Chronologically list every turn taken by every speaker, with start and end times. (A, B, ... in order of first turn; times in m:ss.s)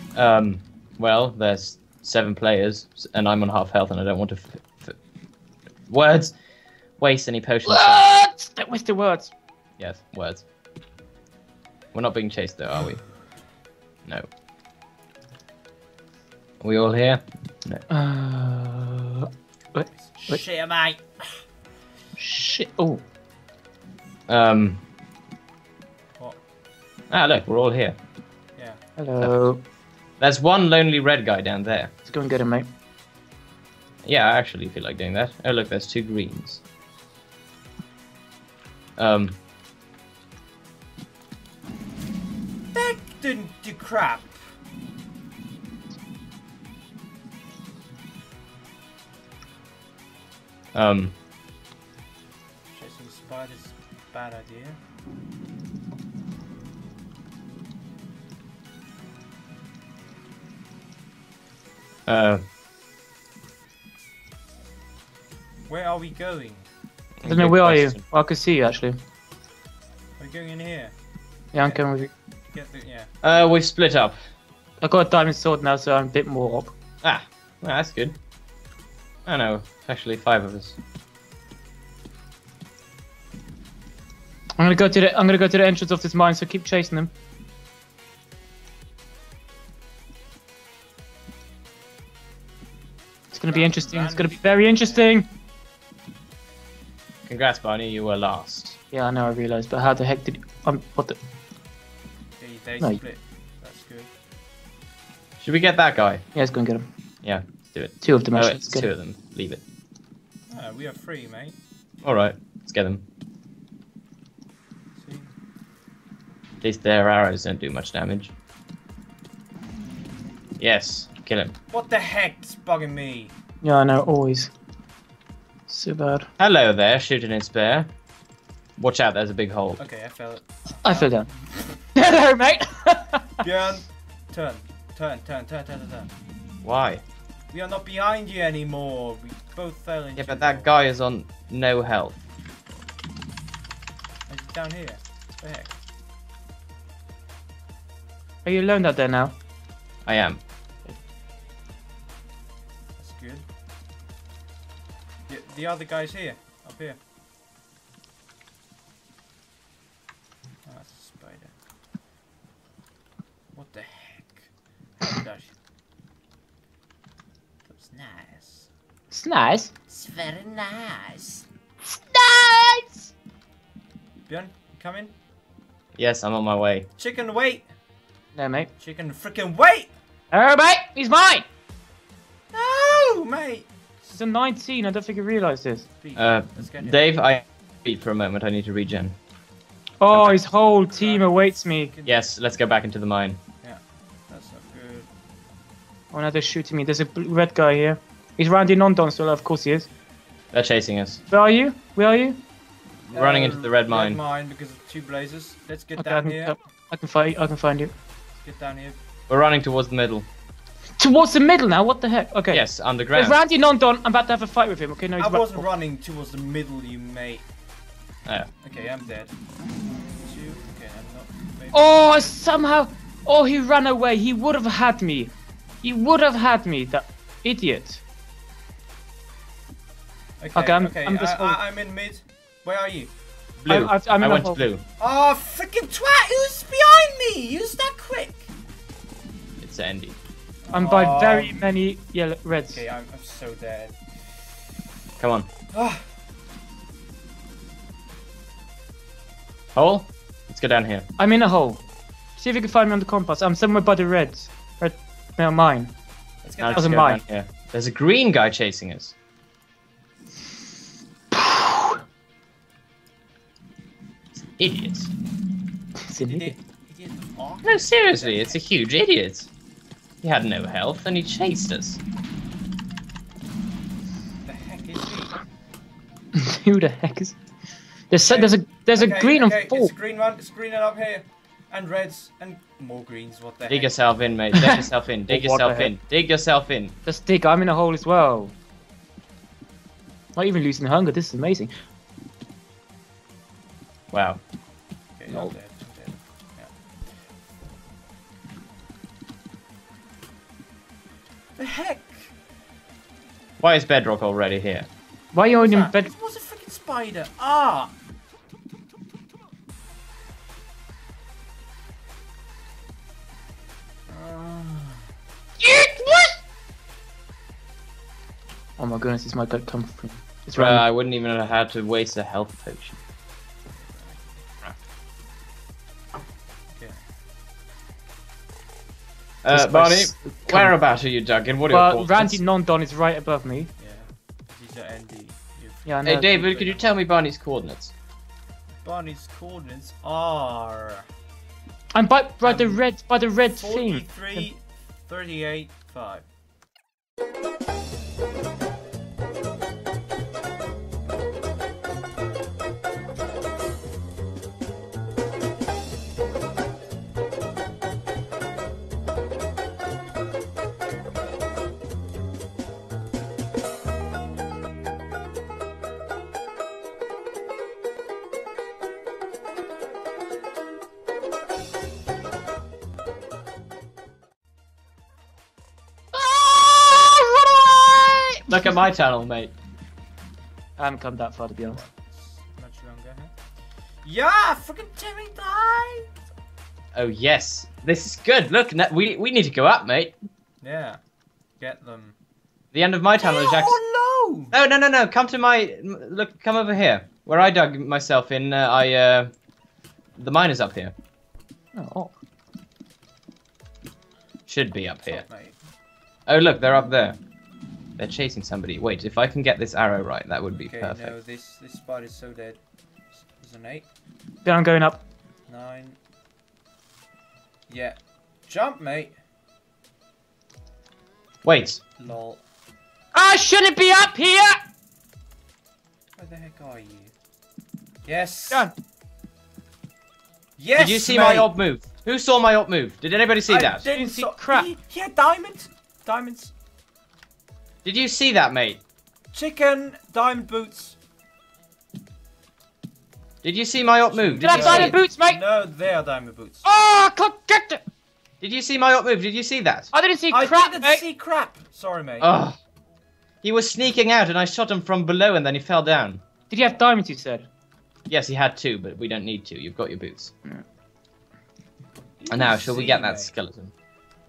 0:00.2-0:05.0 A
0:05.9-0:06.4 A
0:07.0-0:08.2 A
0:07.7-0:09.3 B
0:09.8-0:10.4 A
0:11.9-0:13.0 A
0:16.6-0:17.8 A
0:17.9-0:20.4 B
0:20.0-0:21.4 C
0:22.2-0:23.0 B
0:24.3-0:24.8 A
0:27.1-0:28.0 A
0:29.0-0:29.6 B
0:30.2-0:31.9 A
0:32.1-0:32.7 B
0:34.0-0:36.6 A
0:39.0-0:39.4 A
0:42.7-0:44.4 C
0:50.7-0:51.2 A
0:52.7-0:54.8 C
1:02.1-1:02.4 A
1:05.7-1:06.7 C
1:07.2-1:08.0 A
1:07.3-1:09.0 B
1:10.2-1:10.9 C
1:11.5-1:12.1 B
1:11.6-1:11.9 C
1:12.5-1:13.1 C
1:13.2-1:14.2 A
1:14.8-1:16.7 B
1:17.0-1:18.2 A
1:19.3-1:20.8 A
1:24.6-1:27.1 B
1:33.3-1:35.3 B
1:33.5-1:35.1 C
1:37.2-1:38.8 A
1:38.9-1:41.2 B
1:42.4-1:44.1 C
1:45.4-1:46.2 A
1:46.4-1:46.9 B
1:47.2-1:49.6 A
1:48.0-1:48.9 B
1:50.5-1:51.6 C
1:52.0-1:53.0 A
1:55.0-1:55.3 C
1:56.6-1:58.3 A
2:00.6-2:01.5 A
2:01.7-2:03.3 C
2:03.6-2:04.5 B
2:05.7-2:06.3 B
2:06.4-2:07.9 A
2:08.8-2:09.8 A
2:09.8-2:11.8 C
2:10.8-2:11.3 B
2:11.9-2:13.4 B
2:13.4-2:16.1 C
2:16.6-2:17.0 A
2:17.5-2:20.8 C
2:20.2-2:22.2 A
2:24.3-2:25.7 C
2:28.4-2:29.4 B
2:30.1-2:30.4 A
2:33.0-2:33.5 C
2:35.3-2:37.0 C
2:40.7-2:41.5 C
2:43.6-2:45.6 C
2:47.6-2:48.7 C
2:49.1-2:49.7 B
2:49.9-2:51.5 C
2:51.9-2:53.1 B
2:54.3-2:55.1 C
2:56.0-2:56.9 A
2:57.0-2:57.7 C
2:58.4-2:58.7 B
2:58.8-2:59.9 C
3:00.3-3:01.5 B
3:02.5-3:03.7 C
3:04.2-3:05.9 B
3:06.0-3:07.1 C
3:06.2-3:09.2 A
3:10.0-3:11.9 B
3:10.1-3:10.4 A
3:10.9-3:12.3 C
3:12.0-3:13.4 A
3:13.6-3:15.1 C
3:16.1-3:19.9 B
3:20.5-3:21.2 A
3:21.3-3:22.4 B
3:23.1-3:26.6 C
3:23.1-3:24.2 A
3:26.0-3:27.9 B
3:28.4-3:29.0 C
3:29.3-3:30.3 A
3:31.0-3:35.7 B
3:32.5-3:33.4 A
3:35.2-3:37.4 C
3:38.6-3:39.3 C
3:40.2-3:42.4 C
3:41.7-3:48.0 B
3:50.4-3:53.1 C
3:50.6-3:51.6 B
3:53.6-3:54.8 A
3:53.7-3:54.6 B
3:55.0-3:58.5 C
3:59.6-4:00.2 A
4:00.6-4:01.7 C
4:00.7-4:02.8 B
4:02.7-4:04.2 C
4:05.2-4:05.5 A
4:05.7-4:06.0 C
4:09.7-4:11.1 A
4:11.2-4:11.8 B
4:12.4-4:15.9 B
4:16.4-4:17.0 C
4:16.6-4:19.2 A
4:16.7-4:17.2 B
4:21.3-4:22.0 B
4:24.4-4:25.1 A
4:26.0-4:26.6 B
4:26.2-4:28.6 C
4:27.6-4:29.5 A
4:30.2-4:32.0 A
4:34.4-4:35.4 C
4:36.4-4:37.4 B
4:38.1-4:39.9 B
4:38.3-4:44.0 C
4:43.7-4:47.0 A
4:44.6-4:46.0 B
4:47.1-4:48.6 B
4:50.4-4:51.7 B
4:54.1-4:54.4 A
4:55.2-4:56.7 C
4:55.3-4:55.5 B
5:01.6-5:02.3 C
5:03.6-5:04.9 A
5:05.3-5:06.1 B
5:05.6-5:07.9 C
5:14.1-5:15.1 C
5:15.6-5:16.4 B
5:18.8-5:20.8 B
5:20.6-5:23.0 A
5:23.8-5:24.3 C
5:29.4-5:32.4 A
5:29.5-5:30.7 B
5:31.7-5:33.7 B
5:33.8-5:36.8 C
5:35.9-5:36.5 B
5:36.0-5:37.9 A
5:38.8-5:41.1 C
5:41.9-5:44.5 B
5:42.4-5:42.8 C
5:43.6-5:46.2 C
6:16.1-6:18.8 B
6:18.5-6:19.5 A
6:20.8-6:21.8 B
6:21.7-6:23.3 C
6:24.0-6:26.2 C
6:26.9-6:30.2 A
6:30.6-6:31.0 C
6:31.6-6:32.2 C
6:32.7-6:33.8 A
6:33.2-6:34.5 C
6:34.5-6:39.3 A
6:40.2-6:40.9 A
6:41.8-6:42.1 B
6:44.5-6:45.2 A
6:45.1-6:45.6 C
6:46.3-6:47.2 A
6:48.0-6:51.2 A
6:50.6-6:52.6 C
6:53.2-6:53.9 C
6:54.4-6:55.0 B
6:55.5-6:56.0 C
6:57.7-6:59.2 C
7:01.4-7:01.8 A
7:02.0-7:02.4 C
7:03.1-7:04.6 B
7:06.2-7:07.1 C
7:08.1-7:08.7 C
7:10.6-7:11.5 C
7:10.8-7:13.8 A
7:13.5-7:16.5 C
7:13.9-7:14.7 B
7:17.8-7:18.8 A
7:19.3-7:21.0 C
7:23.4-7:25.0 A
7:24.1-7:26.6 C
7:24.4-7:25.4 B
7:26.6-7:27.8 B
7:28.4-7:29.9 A
7:29.9-7:31.0 B
7:30.3-7:32.4 C
7:32.2-7:32.6 A
7:33.4-7:36.2 A
7:36.5-7:37.5 B
7:38.1-7:40.3 A
7:42.2-7:43.3 C
7:42.3-7:43.7 A